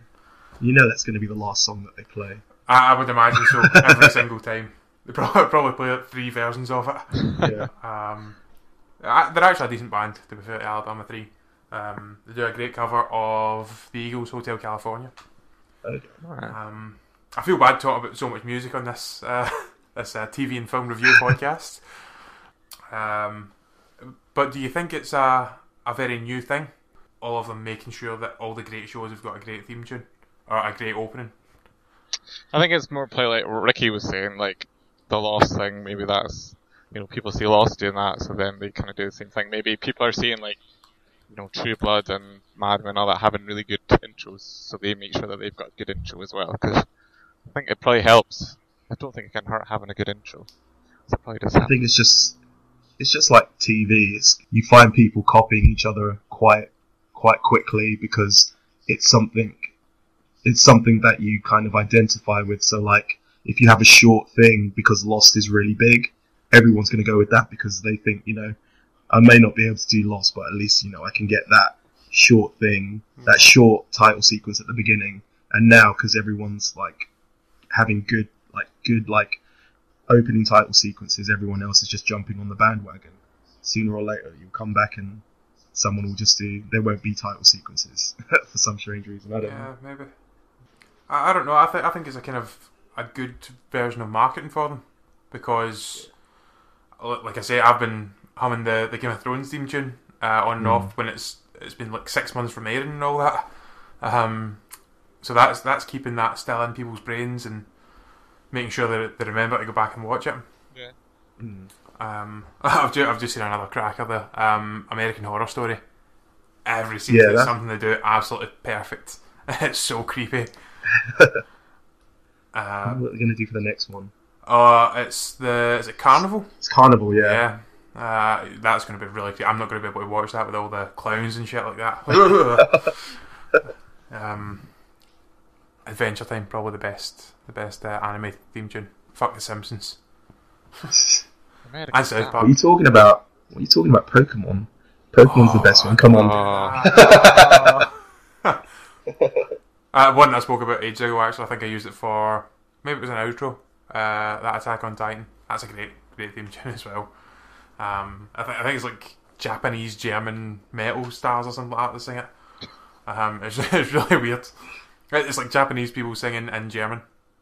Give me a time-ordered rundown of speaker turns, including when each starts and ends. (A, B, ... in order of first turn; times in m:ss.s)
0:00.6-0:02.7 A
0:02.6-0:15.2 B
0:03.4-0:04.1 A
0:07.4-0:07.7 A
0:15.8-0:16.2 A
0:16.2-0:16.6 C
0:16.5-0:22.4 B
0:22.9-0:31.4 B
0:32.5-0:40.6 C
0:41.3-0:50.5 C
0:51.0-0:51.7 C
0:51.6-0:52.4 A
0:53.0-0:59.7 A
1:00.4-1:08.6 A
1:09.1-1:17.1 A
1:13.2-1:13.5 B
1:17.7-1:19.4 A
1:20.1-1:29.7 A
1:29.4-1:30.1 B
1:31.1-1:36.3 B
1:37.0-1:50.5 B
1:40.6-1:40.9 A
1:51.4-1:51.7 A
1:52.0-1:55.8 B
1:56.6-2:00.6 B
1:57.1-1:57.5 A
2:00.9-2:01.4 A
2:02.5-2:03.0 B
2:02.8-2:04.1 A
2:04.4-2:06.6 B
2:06.6-2:07.4 A
2:07.1-2:15.0 B
2:12.3-2:12.9 A
2:15.8-2:20.0 B
2:20.9-2:21.2 A
2:21.6-2:22.5 C
2:21.9-2:22.5 B
2:22.4-2:27.8 A
2:25.2-2:27.9 B
2:26.0-2:26.8 C
2:29.1-2:29.5 A
2:29.9-2:47.0 B